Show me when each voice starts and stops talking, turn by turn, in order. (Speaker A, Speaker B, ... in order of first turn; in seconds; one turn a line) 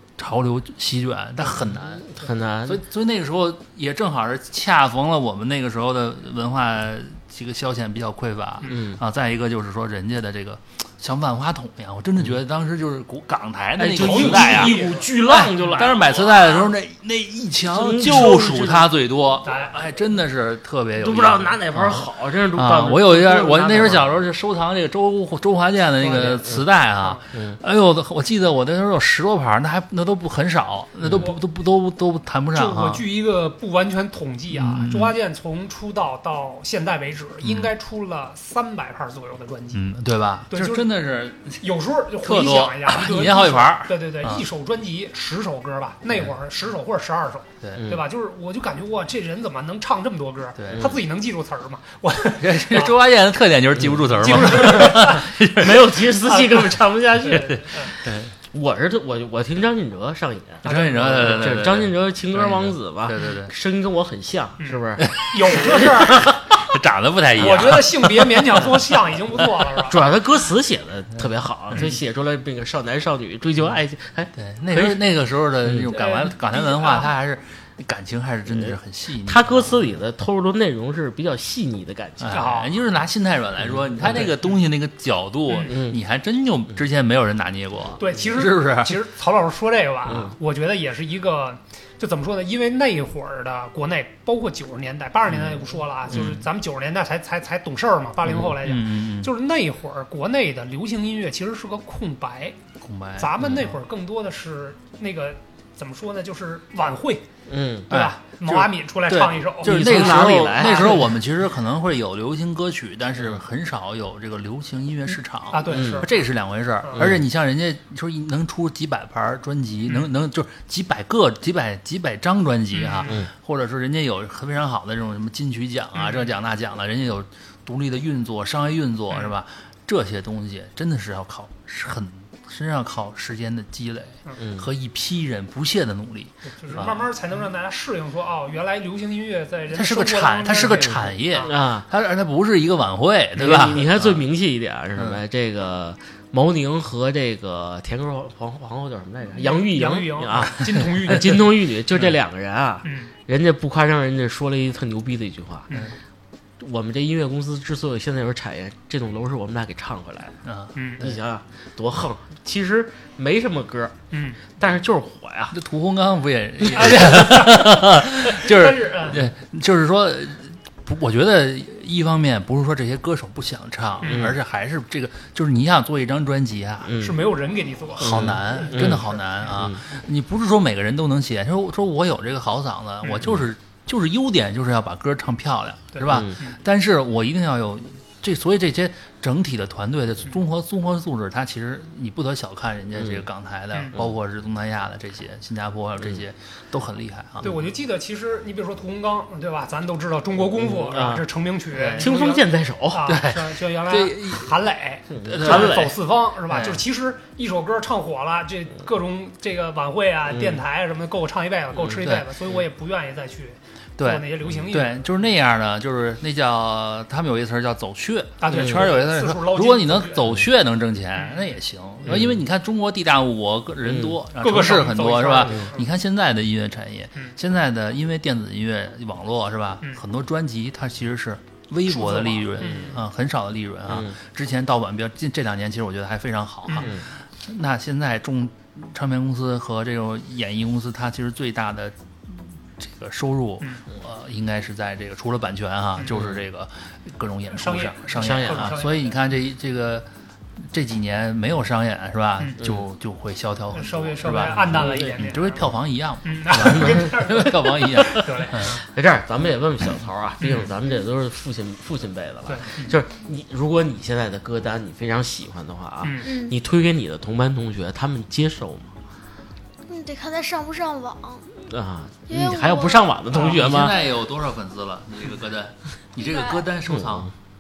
Speaker A: 0.2-2.0
Speaker B: 1.7-2.8
Speaker A: 2.7-33.0
Speaker B: 8.7-9.0
Speaker B: 13.8-16.2
Speaker C: 13.9-16.5
Speaker B: 17.7-18.9
Speaker C: 19.4-19.8
Speaker B: 21.0-24.1
Speaker B: 26.2-26.6
Speaker B: 27.3-27.6
Speaker B: 31.0-31.3
Speaker C: 32.5-39.9
Speaker A: 34.5-35.1
Speaker A: 37.4-37.7
Speaker A: 39.7-41.6
Speaker C: 40.5-40.9
Speaker C: 41.6-53.0
Speaker A: 42.2-44.4
Speaker B: 47.8-48.0
Speaker A: 50.6-50.9
Speaker A: 52.4-55.8
Speaker B: 53.8-66.4
Speaker C: 54.1-55.3
Speaker C: 56.2-57.9
Speaker A: 58.0-58.3
Speaker C: 60.6-61.6
Speaker A: 60.6-63.5
Speaker C: 64.6-66.3
Speaker A: 66.6-68.6
Speaker C: 67.4-70.0
Speaker B: 69.8-75.0
Speaker A: 74.4-79.8
Speaker B: 75.6-75.9
Speaker C: 75.9-77.1
Speaker B: 78.6-82.5
Speaker A: 82.2-89.0
Speaker C: 82.3-82.7
Speaker B: 83.7-84.3
Speaker B: 85.6-86.0
Speaker C: 88.0-102.6
Speaker B: 90.1-90.3
Speaker A: 96.1-96.4
Speaker A: 98.6-99.3
Speaker A: 102.8-103.7
Speaker C: 103.2-107.3
Speaker B: 107.5-107.9
Speaker C: 107.9-111.2
Speaker A: 107.9-137.0
Speaker B: 109.6-111.0
Speaker C: 115.5-116.2
Speaker B: 115.7-116.1
Speaker C: 116.8-117.1
Speaker B: 117.0-117.2
Speaker C: 122.7-123.2
Speaker B: 123.1-123.3
Speaker C: 126.0-126.3
Speaker B: 134.4-134.7
Speaker C: 136.6-141.5
Speaker A: 139.7-144.2
Speaker B: 141.4-141.9
Speaker B: 143.4-155.7
Speaker C: 149.3-151.5
Speaker C: 152.8-153.1
Speaker B: 156.6-160.4
Speaker A: 160.4-161.1
Speaker C: 160.8-161.1
Speaker B: 161.0-164.0
Speaker C: 164.1-164.4
Speaker B: 164.5-165.6
Speaker A: 165.5-176.9
Speaker C: 166.8-169.2
Speaker C: 174.0-174.3
Speaker B: 174.0-174.3
Speaker B: 176.8-177.2
Speaker C: 177.0-179.6
Speaker A: 178.0-197.5
Speaker B: 178.0-179.8
Speaker C: 183.0-183.3
Speaker C: 185.9-186.6
Speaker B: 186.1-186.4
Speaker B: 193.0-193.2
Speaker C: 197.4-215.1
Speaker B: 200.5-203.1
Speaker A: 203.1-204.5
Speaker B: 205.1-206.0
Speaker A: 205.3-205.8
Speaker A: 206.5-206.8
Speaker B: 210.3-210.6
Speaker A: 212.0-212.3
Speaker A: 214.0-250.1
Speaker C: 218.4-220.4
Speaker B: 218.6-218.8
Speaker C: 221.2-221.5
Speaker B: 222.1-222.4
Speaker B: 223.9-224.2
Speaker C: 224.4-225.9
Speaker B: 225.5-225.7
Speaker C: 231.9-233.0
Speaker B: 232.6-232.9
Speaker B: 233.9-234.2
Speaker B: 236.8-237.1
Speaker B: 246.1-246.4
Speaker C: 247.5-249.2
Speaker B: 248.2-248.7
Speaker A: 250.7-258.8
Speaker C: 253.7-255.7
Speaker B: 254.6-255.2
Speaker C: 256.2-258.8
Speaker B: 256.7-257.1
Speaker B: 258.2-268.9
Speaker C: 260.4-260.7
Speaker C: 262.5-262.9
Speaker C: 266.0-266.3
Speaker D: 266.2-266.6
Speaker D: 269.9-271.6
Speaker B: 271.7-274.0
Speaker D: 272.3-273.2
Speaker A: 273.3-277.3
Speaker D: 276.2-276.6
Speaker B: 276.9-277.3